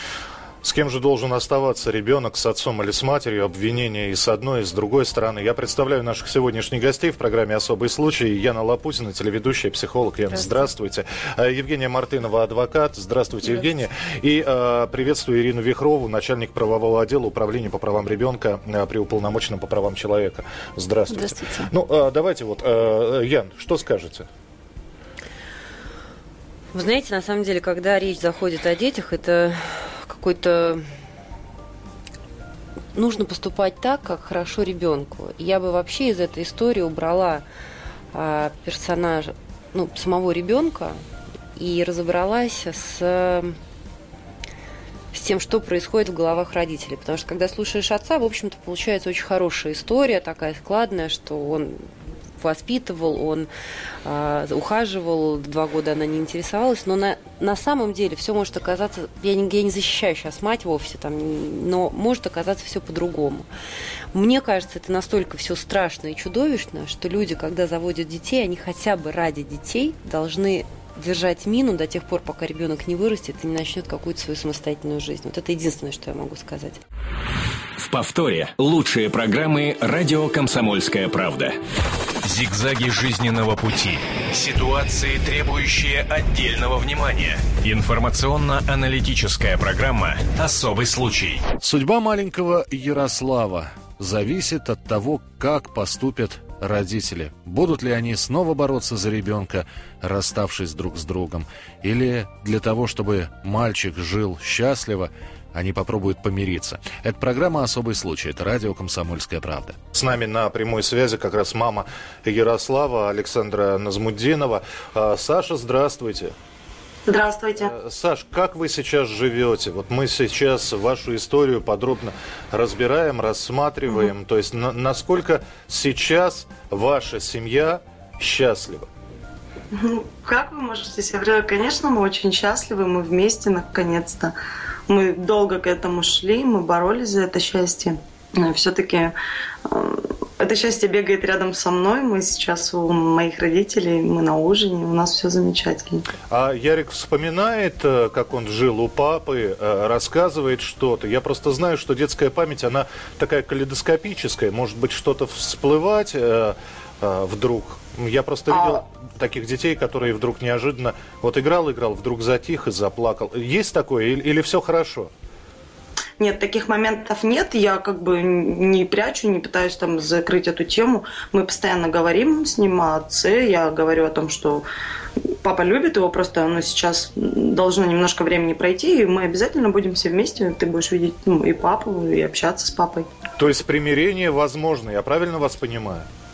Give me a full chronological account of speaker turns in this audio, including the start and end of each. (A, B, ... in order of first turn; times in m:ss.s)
0:00.6-0:24.3 A
0:26.7-0:30.8 B
0:32.9-0:37.4 B
0:38.1-0:41.0 B
0:41.6-0:43.6 B
0:45.1-0:53.5 B
0:54.0-1:03.5 B
1:04.1-1:16.8 B
1:17.8-1:21.6 C
1:22.2-1:31.4 D
1:31.6-1:56.3 A
1:57.0-1:57.7 E
1:57.6-2:08.9 A
2:09.7-2:14.4 E
2:14.9-2:19.1 E
2:19.6-2:26.0 E
2:26.3-2:45.1 A
2:46.2-2:54.6 E
2:55.4-3:03.1 E
3:03.4-3:06.1 A